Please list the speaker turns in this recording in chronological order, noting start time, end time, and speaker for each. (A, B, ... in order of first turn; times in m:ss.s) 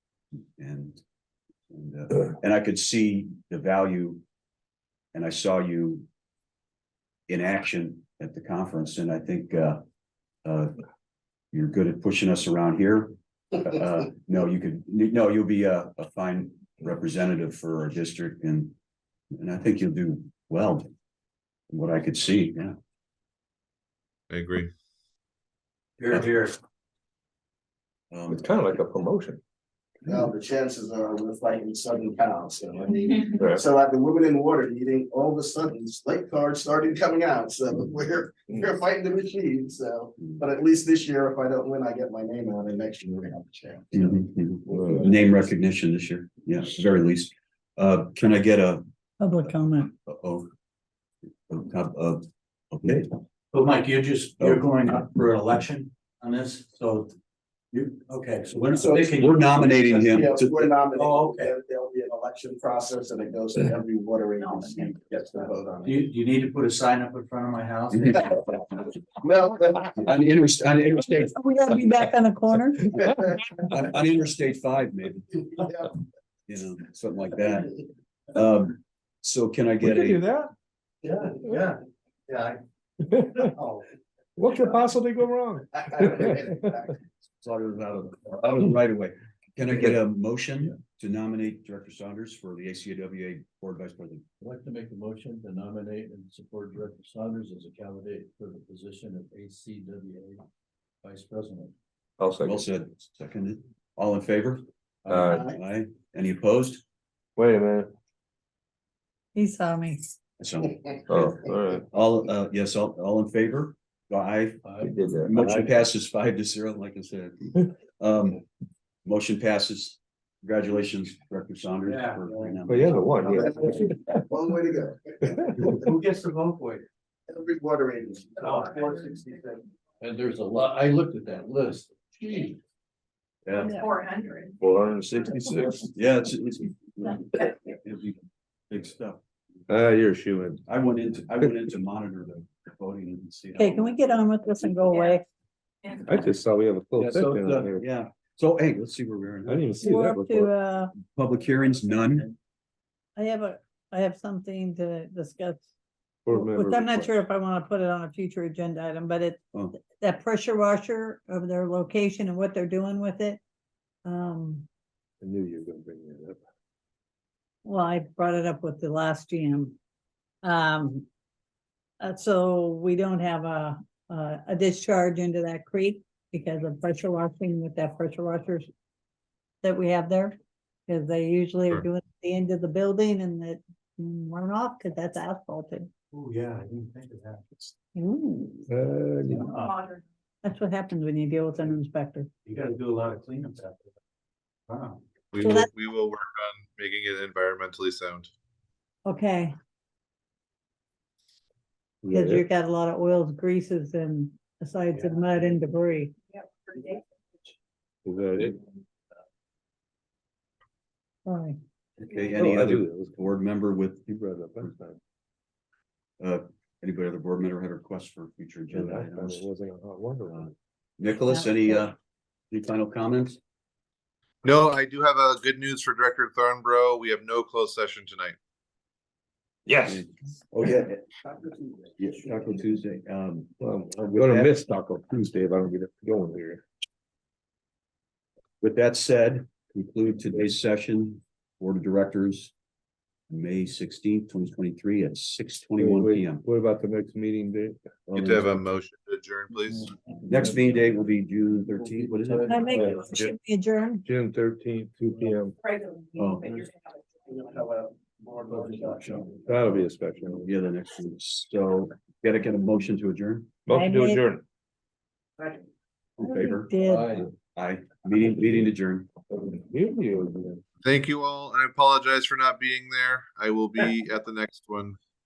0:00.6-0:01.0 A
0:01.7-0:04.2 A
0:05.1-0:06.1 A
0:07.3-0:09.8 A
0:10.4-0:10.8 A
0:11.5-0:18.8 A
0:19.4-0:20.9 A
0:21.7-0:22.8 A
0:24.3-0:24.7 B
0:26.0-0:26.6 C
0:28.1-0:28.5 A
0:28.3-0:29.4 D
0:30.1-0:43.9 E
0:33.3-0:33.6 D
0:43.9-0:48.8 A
0:44.7-0:45.1 D
0:49.2-0:49.9 F
0:49.4-0:50.5 A
0:51.5-0:53.1 A
0:53.5-0:57.2 C
0:57.7-1:00.2 C
0:58.6-1:00.6 A
1:00.1-1:06.0 E
1:00.9-1:01.5 C
1:04.4-1:04.7 C
1:05.8-1:08.4 C
1:09.2-1:10.0 E
1:10.0-1:11.4 A
1:11.2-1:12.9 F
1:13.1-1:15.4 A
1:15.6-1:15.9 E
1:16.5-1:17.8 A
1:18.3-1:20.2 A
1:19.8-1:20.5 D
1:21.0-1:22.6 C
1:23.0-1:23.5 D
1:23.4-1:23.8 C
1:24.4-1:26.6 D
1:25.8-1:27.0 E
1:27.4-1:34.2 A
1:34.4-1:40.4 G
1:41.0-1:41.7 G
1:42.2-1:42.7 D
1:42.4-1:44.6 A
1:45.0-1:45.3 G
1:45.1-1:45.5 D
1:45.2-1:45.6 E
1:45.3-1:46.8 A
1:47.4-1:47.9 D
1:49.4-1:50.1 F
1:50.4-1:51.4 A
1:51.1-1:51.8 D
1:51.9-1:54.6 A
1:54.6-1:54.9 G
1:54.8-1:55.7 D
1:55.2-1:58.4 A
1:59.0-2:03.0 A
2:01.8-2:02.6 C
2:02.7-2:04.0 D
2:03.2-2:05.6 E
2:05.6-2:06.9 C
2:07.3-2:09.6 E
2:08.4-2:08.9 C
2:10.0-2:12.6 G
2:13.5-2:13.8 A
2:14.6-2:15.9 D
2:15.3-2:18.2 A
2:18.7-2:19.2 A
2:19.7-2:20.6 D
2:20.7-2:23.9 A
2:23.6-2:25.3 F
2:26.0-2:27.9 D
2:27.0-2:29.7 A
2:29.5-2:30.5 D
2:29.8-2:30.9 F
2:31.0-2:32.3 A
2:33.2-2:35.7 F
2:36.2-2:37.2 D
2:36.3-2:43.4 F
2:44.0-2:44.7 F
2:45.2-2:46.4 D
2:47.6-2:49.8 F
2:50.4-2:51.1 F
2:52.0-2:58.7 F
2:59.6-3:00.4 F
3:00.9-3:05.9 F
3:06.1-3:07.8 C
3:08.0-3:08.7 F
3:08.7-3:09.5 D
3:09.3-3:09.9 C
3:10.4-3:12.3 F
3:12.4-3:14.0 C
3:14.7-3:15.0 C
3:15.3-3:18.3 B
3:15.4-3:15.7 F
3:19.0-3:19.5 F
3:22.0-3:22.4 D
3:22.1-3:26.2 F
3:24.9-3:25.5 C
3:28.0-3:28.6 D
3:31.3-3:31.6 F
3:32.0-3:34.1 A
3:32.4-3:33.3 D
3:34.1-3:35.0 D
3:36.2-3:39.5 A
3:38.7-3:40.5 D
3:41.0-3:42.0 A
3:41.3-3:41.8 F
3:42.5-3:43.4 A
3:44.4-3:48.4 B
3:49.7-3:50.0 D
3:49.9-3:51.0 A
3:51.2-3:51.9 E
3:52.0-3:54.6 A
3:53.6-3:56.6 D
3:58.6-4:02.5 A
4:03.3-4:06.4 A
4:05.8-4:07.8 D
4:08.1-4:08.6 A
4:08.1-4:09.9 B
4:10.3-4:12.9 A
4:10.3-4:10.9 D
4:11.7-4:13.0 G
4:12.5-4:14.0 F
4:12.7-4:13.4 D
4:14.0-4:15.6 D
4:16.2-4:16.6 A
4:17.3-4:19.6 E
4:19.0-4:19.7 A
4:19.5-4:20.5 D
4:20.4-4:23.6 A
4:23.7-4:24.4 D
4:23.7-4:24.2 F
4:26.2-4:29.1 A
4:26.2-4:27.1 F
4:26.8-4:27.3 G
4:29.3-4:30.6 D
4:30.8-4:35.0 B